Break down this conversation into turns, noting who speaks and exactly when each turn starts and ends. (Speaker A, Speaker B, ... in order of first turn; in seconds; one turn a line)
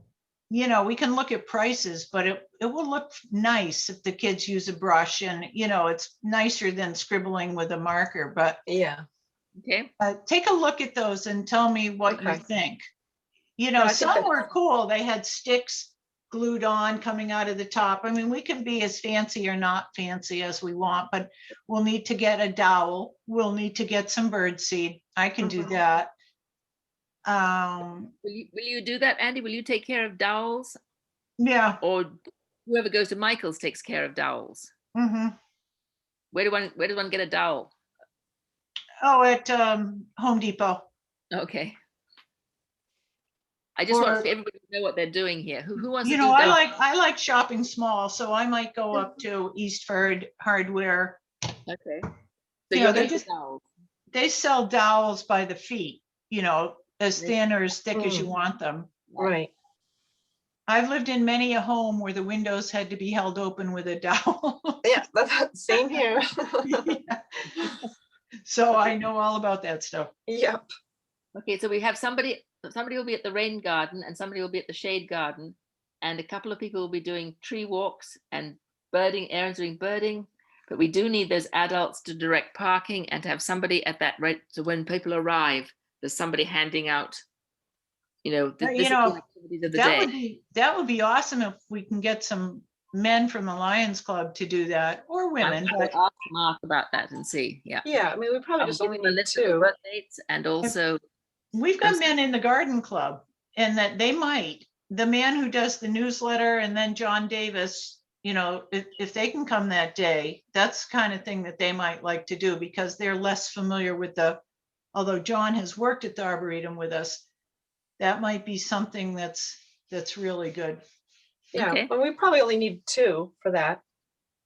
Speaker A: 0.5-8.6
Speaker B: 8.7-9.0
Speaker C: 9.6-9.9
Speaker A: 10.0-12.8
Speaker B: 12.1-12.4
Speaker A: 13.6-26.1
Speaker B: 13.8-14.4
Speaker B: 25.4-25.8
Speaker A: 27.2-28.1
Speaker C: 28.2-30.8
Speaker A: 31.4-31.8
Speaker C: 31.8-34.7
Speaker A: 34.9-35.4
Speaker C: 36.3-37.7
Speaker A: 39.0-40.9
Speaker C: 41.3-41.8
Speaker C: 43.8-46.6
Speaker A: 43.9-44.3
Speaker A: 46.0-51.2
Speaker C: 51.7-52.1
Speaker C: 52.7-53.6
Speaker A: 52.7-53.2
Speaker A: 54.1-58.9
Speaker B: 57.9-58.3
Speaker B: 59.2-59.5
Speaker A: 60.7-64.8
Speaker B: 64.8-66.9
Speaker A: 66.7-67.7
Speaker A: 68.4-70.1
Speaker B: 70.3-70.6
Speaker C: 71.3-87.2
Speaker C: 88.2-90.1
Speaker A: 88.6-89.2
Speaker A: 89.7-95.9
Speaker C: 95.4-97.8
Speaker B: 97.8-99.7
Speaker C: 98.6-101.0
Speaker A: 101.5-114.4
Speaker A: 114.9-117.2
Speaker A: 118.0-120.8
Speaker B: 121.5-123.8
Speaker C: 121.5-121.9